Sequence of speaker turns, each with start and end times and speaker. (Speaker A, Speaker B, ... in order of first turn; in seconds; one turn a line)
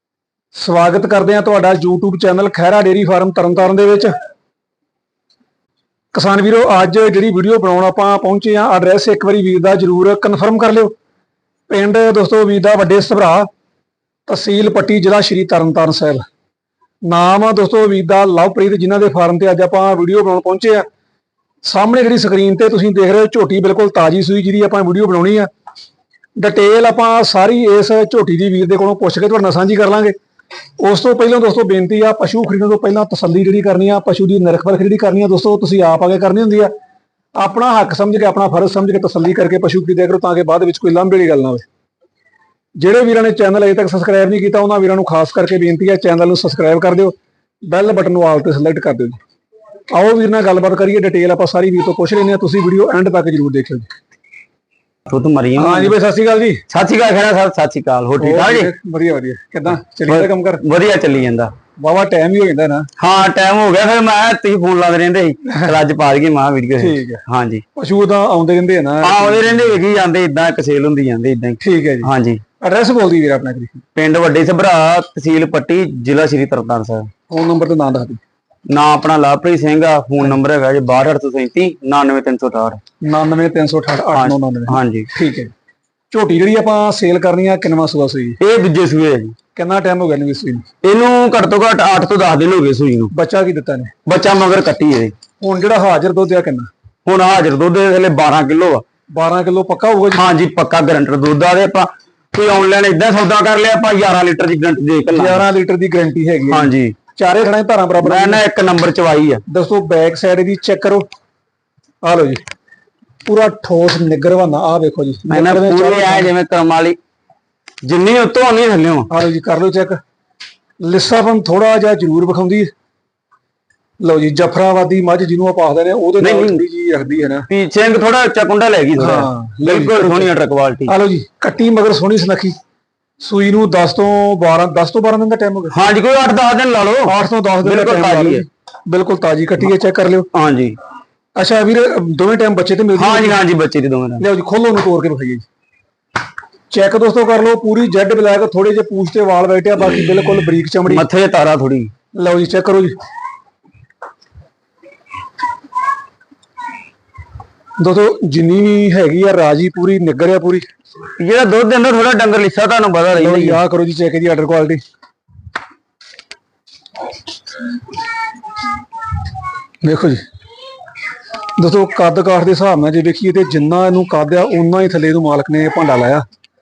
Speaker A: 0.5-4.1
Speaker A: 6.1-10.9
Speaker A: 11.7-13.5
Speaker A: 14.3-16.2
Speaker A: 17.1-20.9
Speaker A: 21.6-25.5
Speaker A: 26.4-30.1
Speaker A: 30.8-36.7
Speaker A: 37.4-41.6
Speaker A: 42.8-47.1
Speaker A: 47.7-49.2
Speaker A: 49.9-53.9
Speaker B: 55.1-55.9
Speaker A: 55.6-56.6
Speaker B: 56.7-58.7
Speaker A: 58.2-60.6
Speaker B: 60.1-61.5
Speaker A: 61.8-62.9
Speaker B: 63.0-67.6
Speaker A: 66.8-67.2
Speaker A: 67.8-69.6
Speaker B: 69.0-72.4
Speaker A: 71.6-73.8
Speaker B: 74.0-77.1
Speaker A: 77.3-78.2
Speaker B: 78.7-82.8
Speaker A: 83.0-85.5
Speaker B: 84.1-85.1
Speaker A: 86.1-88.4
Speaker B: 88.4-89.3
Speaker A: 89.5-90.7
Speaker B: 90.8-93.1
Speaker A: 93.1-93.9
Speaker B: 94.0-95.1
Speaker A: 95.4-96.7
Speaker B: 97.0-98.8
Speaker A: 99.1-100.3
Speaker B: 100.1-105.5
Speaker A: 105.1-108.4
Speaker B: 106.5-107.0
Speaker B: 108.0-109.4
Speaker A: 109.5-111.1
Speaker A: 112.0-112.4
Speaker A: 113.2-116.3
Speaker B: 115.2-117.0
Speaker B: 117.8-119.1
Speaker A: 119.1-120.0
Speaker A: 120.8-122.7
Speaker A: 124.0-127.5
Speaker B: 126.2-126.6
Speaker B: 127.5-130.9
Speaker A: 129.0-130.3
Speaker A: 130.9-132.6
Speaker A: 133.2-135.7
Speaker B: 135.7-138.4
Speaker A: 137.0-140.3
Speaker B: 140.3-140.8
Speaker A: 141.3-143.4
Speaker B: 142.9-144.2
Speaker A: 144.2-145.4
Speaker A: 146.7-151.1
Speaker B: 150.9-151.9
Speaker A: 152.1-152.9
Speaker A: 157.8-160.6
Speaker B: 161.2-163.6
Speaker A: 163.1-164.8
Speaker A: 169.8-170.2
Speaker A: 171.6-176.2